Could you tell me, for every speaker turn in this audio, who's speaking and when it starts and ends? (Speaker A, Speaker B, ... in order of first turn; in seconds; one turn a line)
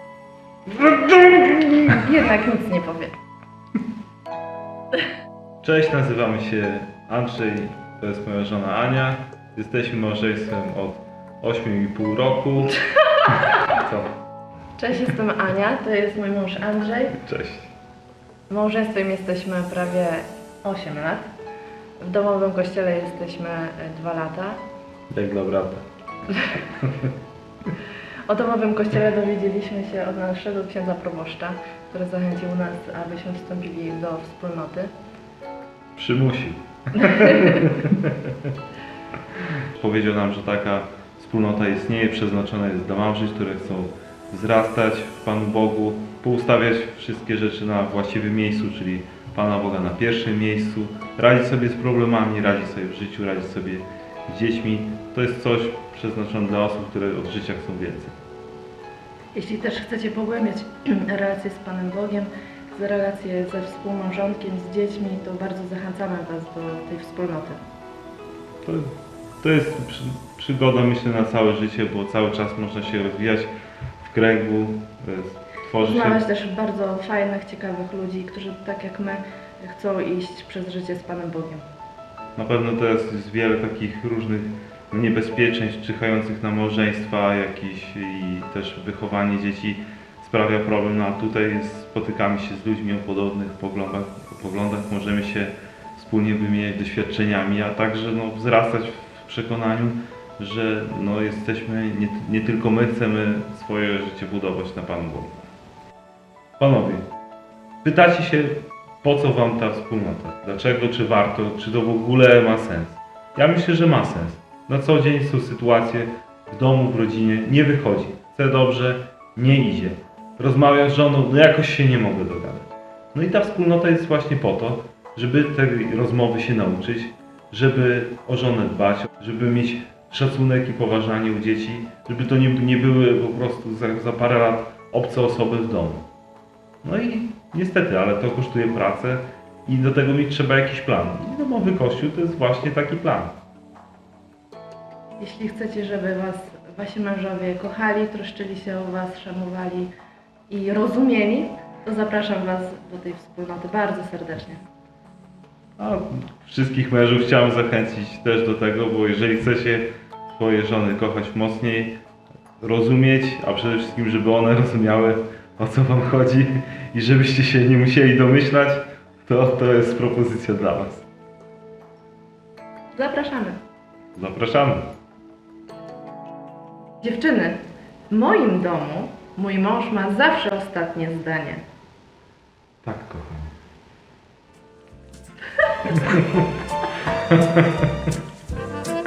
Speaker A: 0.8-3.1
Speaker B: 0.9-1.9
Speaker B: 5.6-12.8
Speaker B: 13.6-14.1
Speaker A: 14.8-17.2
Speaker B: 17.2-17.7
Speaker A: 18.5-21.3
Speaker A: 22.0-24.6
Speaker B: 25.1-25.8
Speaker A: 26.3-26.6
Speaker B: 26.8-27.1
Speaker A: 28.3-34.9
Speaker B: 36.0-38.5
Speaker A: 37.0-37.6
Speaker B: 39.5-58.1
Speaker A: 59.3-67.6
Speaker B: 68.6-76.2
Speaker A: 75.8-81.6
Speaker B: 82.3-105.5
Speaker B: 106.6-107.0
Speaker B: 107.8-136.0
Speaker B: 136.8-143.3
Speaker A: 145.2-149.9
Speaker A: 150.5-154.6
Speaker B: 155.8-161.9
Speaker B: 162.6-171.1
Speaker A: 172.9-173.6
Speaker B: 174.1-174.9
Speaker A: 177.0-181.6
Speaker B: 182.8-183.5
Speaker B: 185.9-186.4
Speaker B: 187.3-187.9